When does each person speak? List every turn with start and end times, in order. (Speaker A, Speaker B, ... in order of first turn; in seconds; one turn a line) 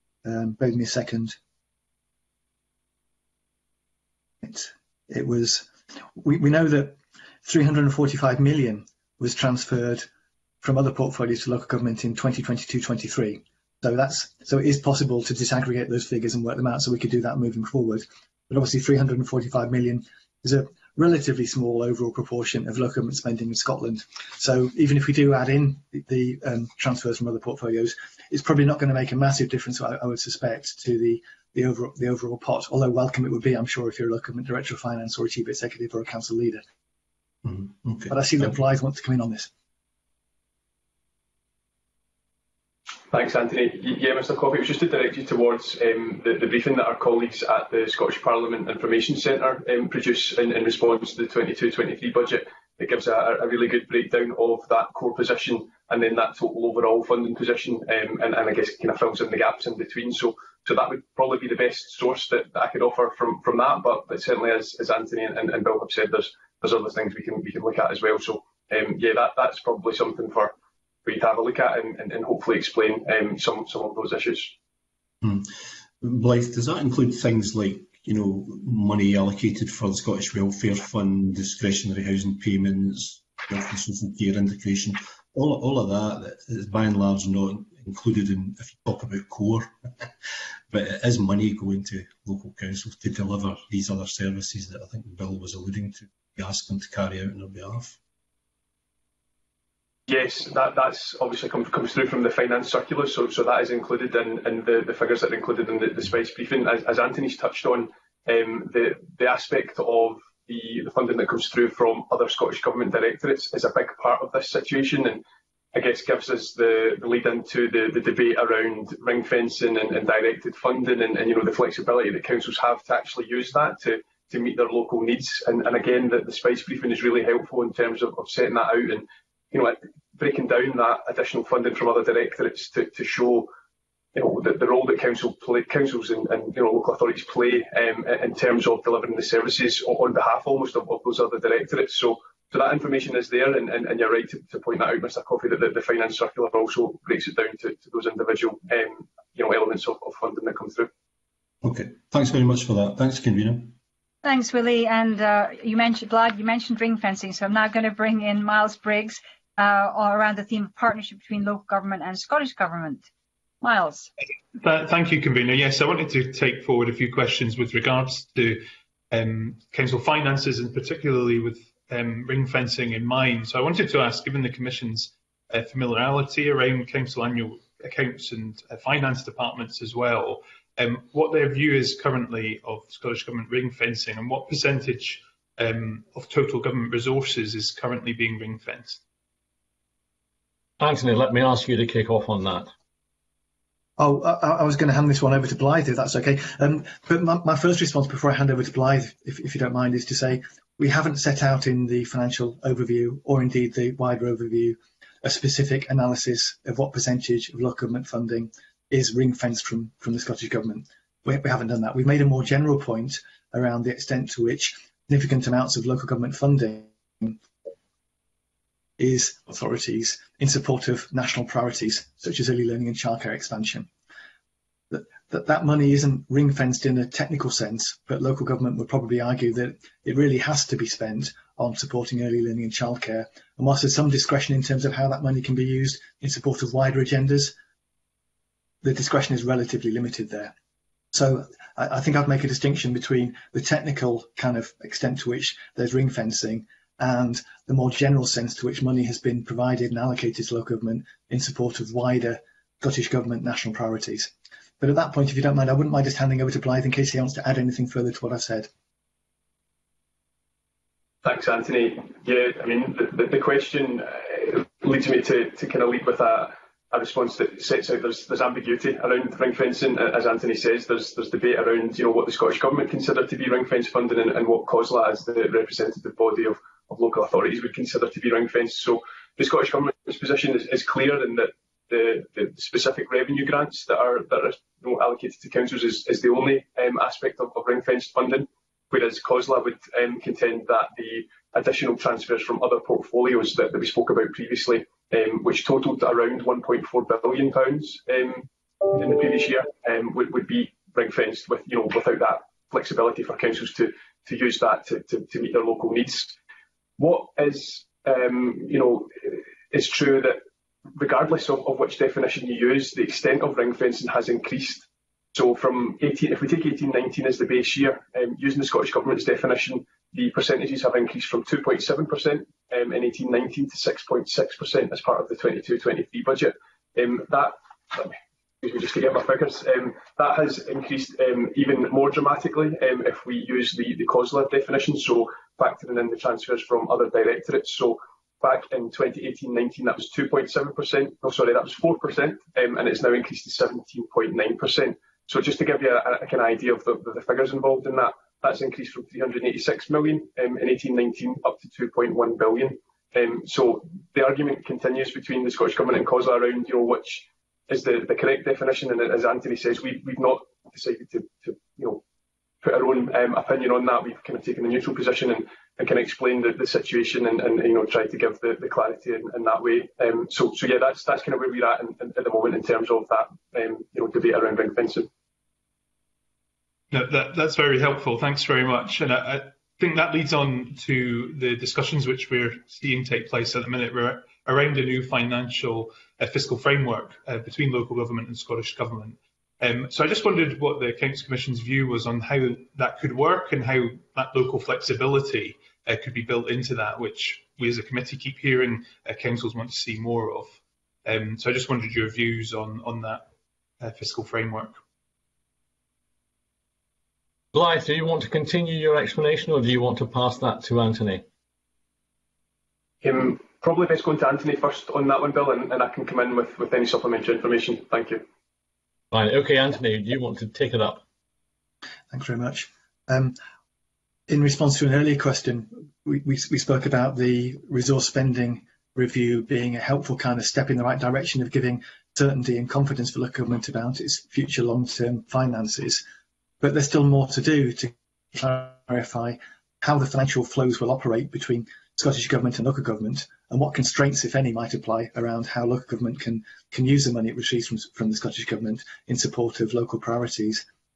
Speaker A: 0.2-1.4
Speaker A: 4.4-10.1
Speaker A: 10.6-36.6
Speaker B: 37.4-38.5
Speaker A: 38.1-39.5
Speaker C: 43.1-70.5
Speaker C: 71.0-74.5
Speaker B: 75.2-90.1
Speaker B: 90.7-98.0
Speaker C: 100.1-133.5
Speaker C: 134.1-150.9
Speaker B: 151.6-153.7
Speaker D: 154.2-163.1
Speaker D: 163.6-164.1
Speaker E: 164.6-189.0
Speaker F: 190.8-192.7
Speaker A: 194.0-217.4
Speaker A: 219.0-223.9
Speaker A: 224.9-237.5
Speaker A: 238.8-240.5
Speaker A: 241.1-258.7
Speaker C: 261.2-306.3
Speaker C: 307.0-310.4
Speaker C: 310.9-362.0
Speaker C: 362.6-375.1
Speaker E: 376.9-403.2
Speaker E: 403.8-404.8
Speaker F: 407.5-411.2
Speaker C: 413.0-418.2
Speaker F: 419.1-421.0
Speaker A: 422.1-423.4
Speaker A: 424.3-436.0
Speaker A: 436.6-450.6